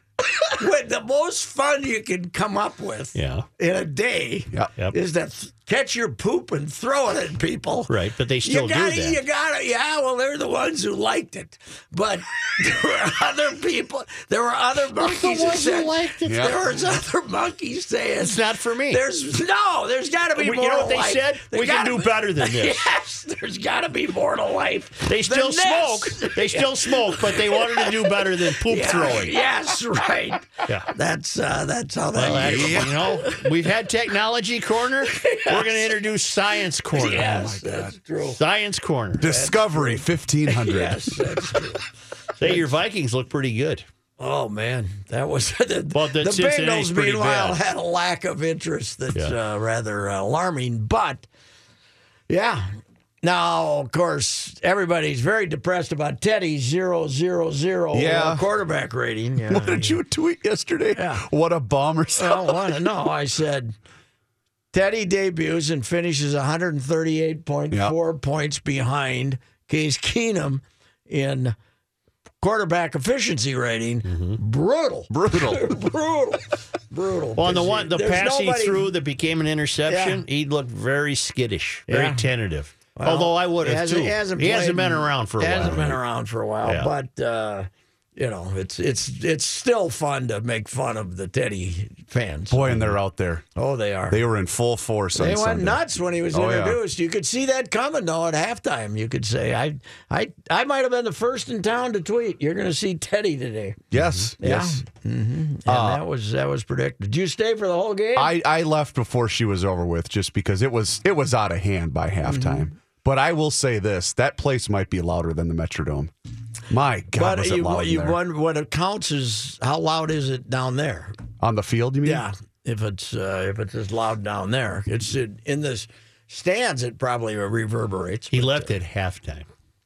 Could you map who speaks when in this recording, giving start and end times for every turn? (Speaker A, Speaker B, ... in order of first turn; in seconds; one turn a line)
Speaker A: 0.3-7.9
Speaker B: 3.1-3.5
Speaker B: 7.9-9.2
Speaker A: 8.4-33.5
Speaker B: 15.0-16.8
Speaker C: 16.2-16.6
Speaker B: 18.2-19.0
Speaker B: 20.4-22.9
Speaker B: 25.1-29.4
Speaker B: 32.1-37.4
Speaker C: 32.3-32.9
Speaker A: 35.0-35.9
Speaker A: 36.9-38.4
Speaker C: 37.1-38.0
Speaker B: 38.3-39.3
Speaker C: 39.2-41.6
Speaker A: 39.2-41.8
Speaker B: 42.4-43.8
Speaker A: 44.2-51.3
Speaker B: 45.9-47.6
Speaker A: 52.3-60.0
Speaker C: 57.9-58.4
Speaker C: 59.5-62.8
Speaker A: 60.9-61.2
Speaker A: 62.1-63.7
Speaker A: 64.7-71.5
Speaker A: 72.4-78.9
Speaker B: 74.0-74.4
Speaker C: 75.1-75.7
Speaker B: 77.4-86.0
Speaker A: 79.9-80.2
Speaker A: 81.9-82.2
Speaker A: 82.9-93.0
Speaker B: 86.6-86.9
Speaker C: 92.5-93.4
Speaker A: 93.5-94.2
Speaker C: 94.1-96.8
Speaker A: 95.1-103.8
Speaker C: 103.9-104.8
Speaker A: 104.4-108.3
Speaker C: 105.7-106.0
Speaker C: 108.2-116.1
Speaker A: 112.2-112.7
Speaker C: 116.7-118.2
Speaker A: 117.1-121.2
Speaker C: 121.4-122.2
Speaker A: 122.0-128.7
Speaker B: 128.3-129.5